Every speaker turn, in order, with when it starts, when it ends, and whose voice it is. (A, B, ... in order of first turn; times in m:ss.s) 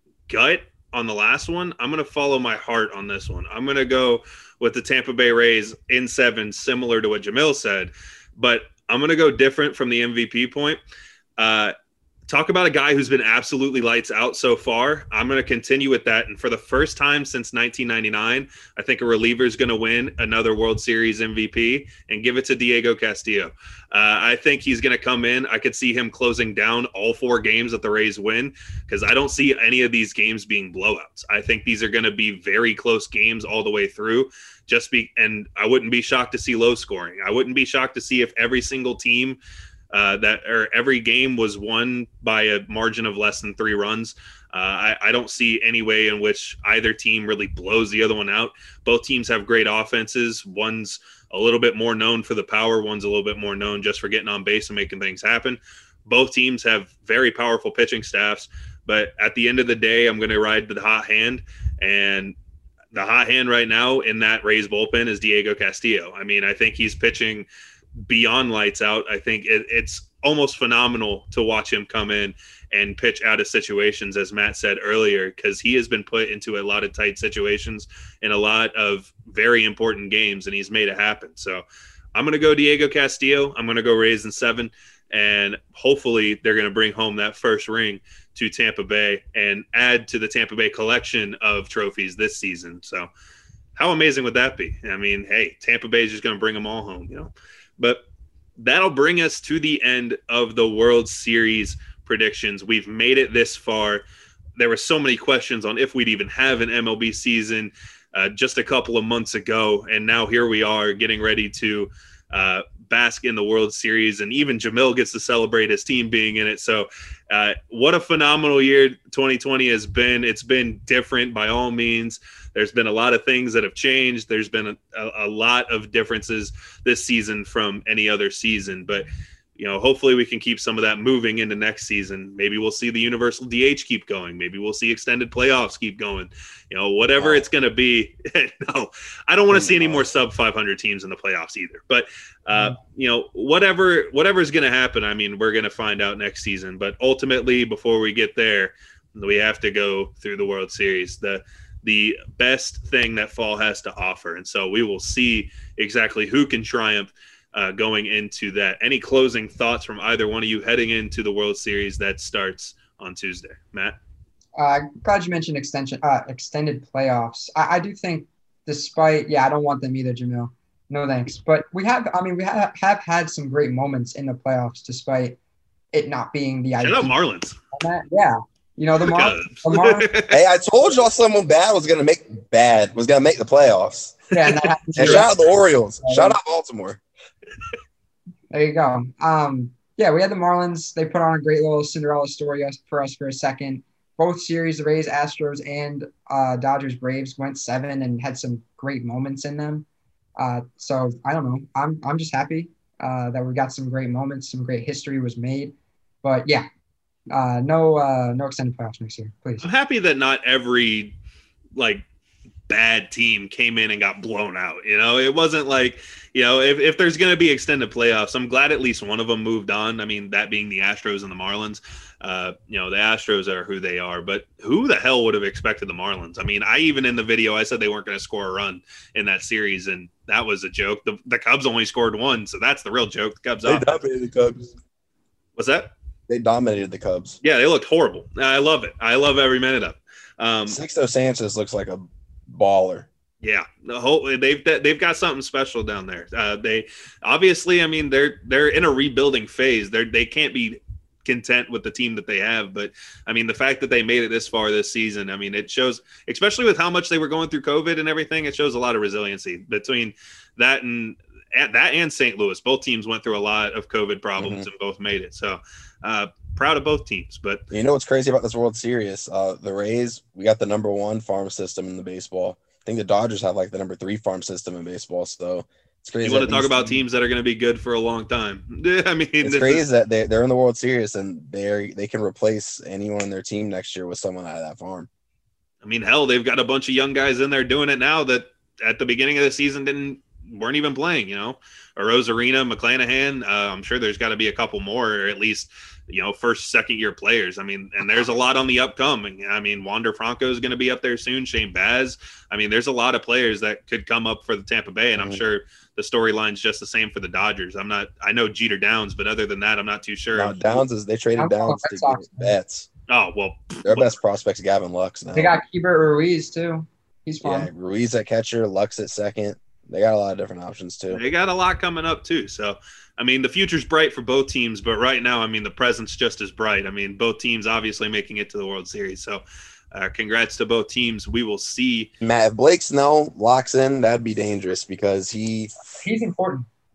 0:00.3-0:10.8 A
0:11.4-0:11.7 A
0:12.3-0:39.4 A
0:39.9-1:02.3 A
1:02.9-1:07.4 A
1:08.0-1:33.1 A
1:33.8-1:38.0 A
1:38.6-1:44.0 A
1:44.6-2:44.0 A
2:17.2-2:17.4 B
2:19.5-2:20.1 B
2:44.6-2:55.4 C
2:55.9-2:57.2 C
2:56.8-2:57.6 A
2:57.7-3:00.1 C
2:59.0-3:00.4 A
3:00.3-3:04.2 B
3:04.3-3:05.3 C
3:05.0-3:07.0 B
3:06.0-3:06.4 C
3:08.5-3:19.8 C
3:20.4-3:26.7 C
3:27.3-3:29.7 C
3:29.6-3:31.2 A
3:31.8-3:32.0 A
3:32.7-3:54.0 A
3:53.6-3:54.7 B
3:55.6-3:55.9 A
3:56.3-3:57.4 B
3:57.4-4:00.8 A
4:00.7-4:03.1 B
4:03.4-4:27.6 A
4:24.4-4:24.7 B
4:27.7-4:37.0 B
4:36.2-4:39.8 A
4:39.4-4:45.1 B
4:45.8-5:10.8 A
5:10.3-5:12.9 B
5:11.4-5:12.5 C
5:13.1-5:14.1 A
5:13.8-5:15.6 B
5:15.3-5:17.7 C
5:17.4-5:21.2 B
5:21.1-5:29.4 A
5:29.9-5:32.1 A
5:32.2-5:35.7 B
5:36.0-5:36.7 C